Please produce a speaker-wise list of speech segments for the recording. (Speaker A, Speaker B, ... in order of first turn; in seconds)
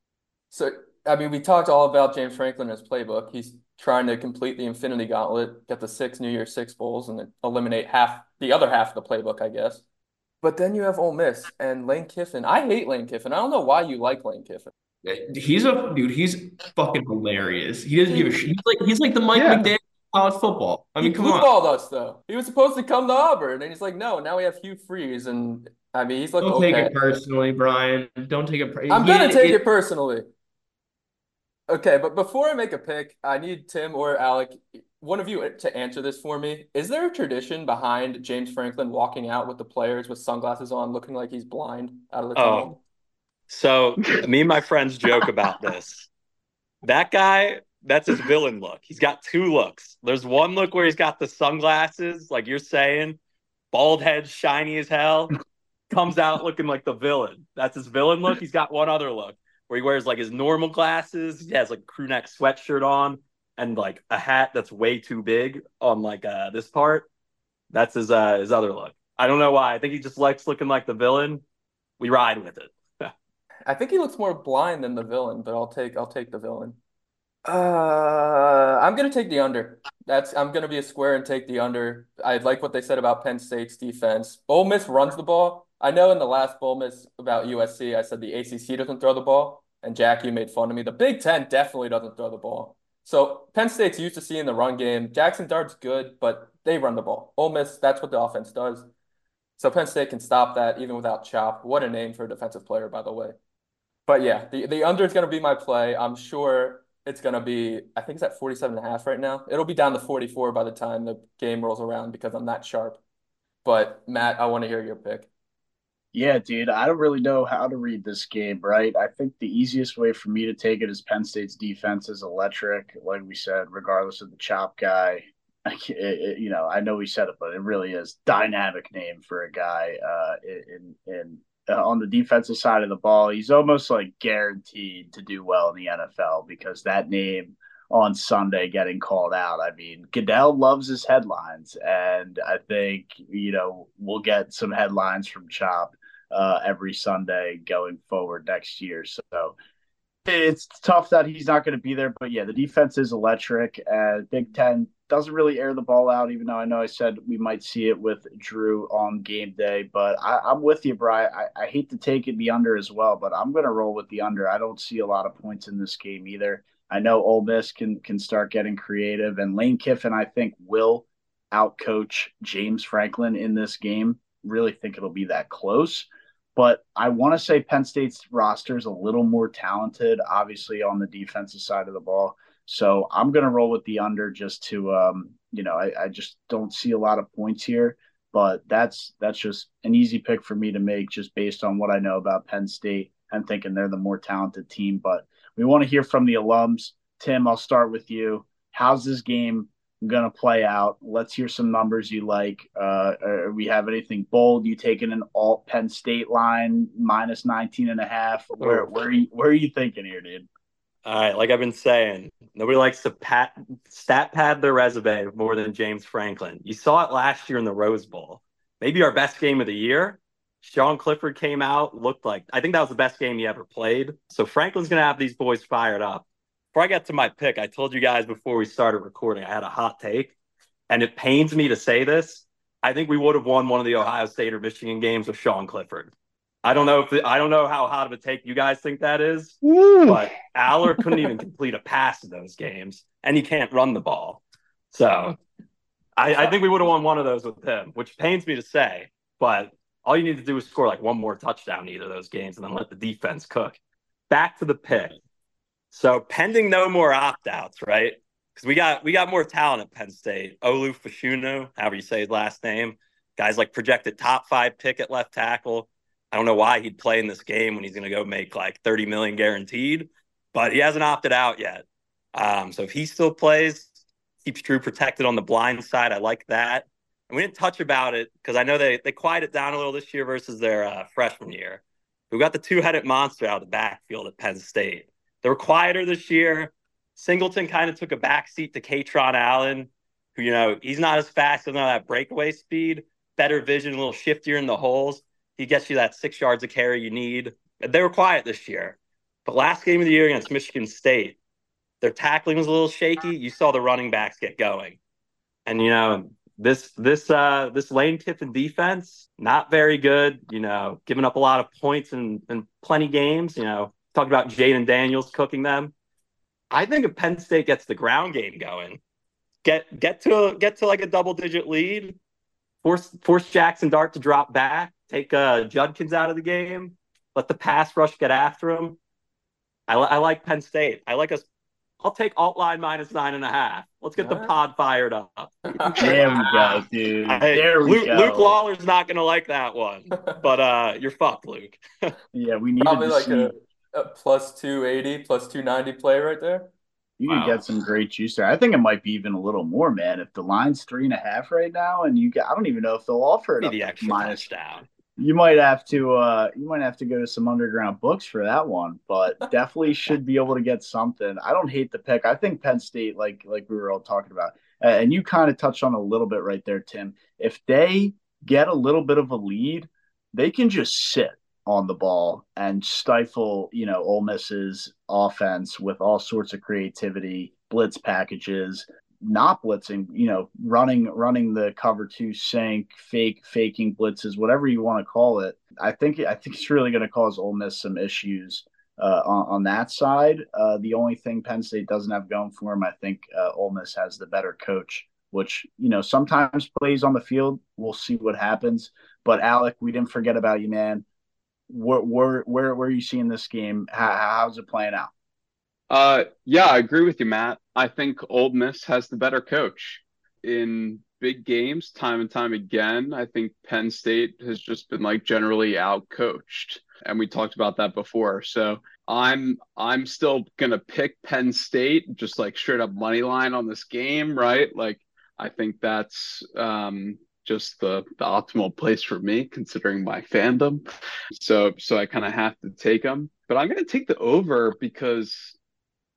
Speaker A: 0.5-9.8, 10.4-14.7, 18.1-18.4, 21.0-27.0, 28.9-30.2, 31.7-42.8, 73.7-76.8, 77.4-98.9, 99.6-103.3, 104.1-113.0, 113.6-115.3, 334.2-334.5, 335.7-336.6, 342.8-346.7
Speaker B: 15.0-21.5, 26.4-29.6
Speaker C: 19.3-19.7, 239.6-240.2, 405.9-435.6
Speaker D: 42.4-42.7, 43.5-46.1, 46.8-53.2, 53.7-55.4, 55.9-67.1, 67.7-71.4, 72.0-73.1, 208.6-208.9, 211.0-230.3, 230.9-236.1, 236.6-244.4, 244.9-245.4, 246.2-253.8, 254.3-255.2, 255.9-301.4, 302.0-305.0, 305.6-315.9, 316.7-319.0, 319.6-322.2, 322.8-329.0, 329.9-331.4, 332.0-336.0, 336.6-342.1, 347.2-347.6, 353.6-354.9
Speaker E: 116.1-149.5, 150.2-210.5, 336.0-338.5, 342.3-343.5, 347.2-354.5, 355.2-401.0, 401.7-405.1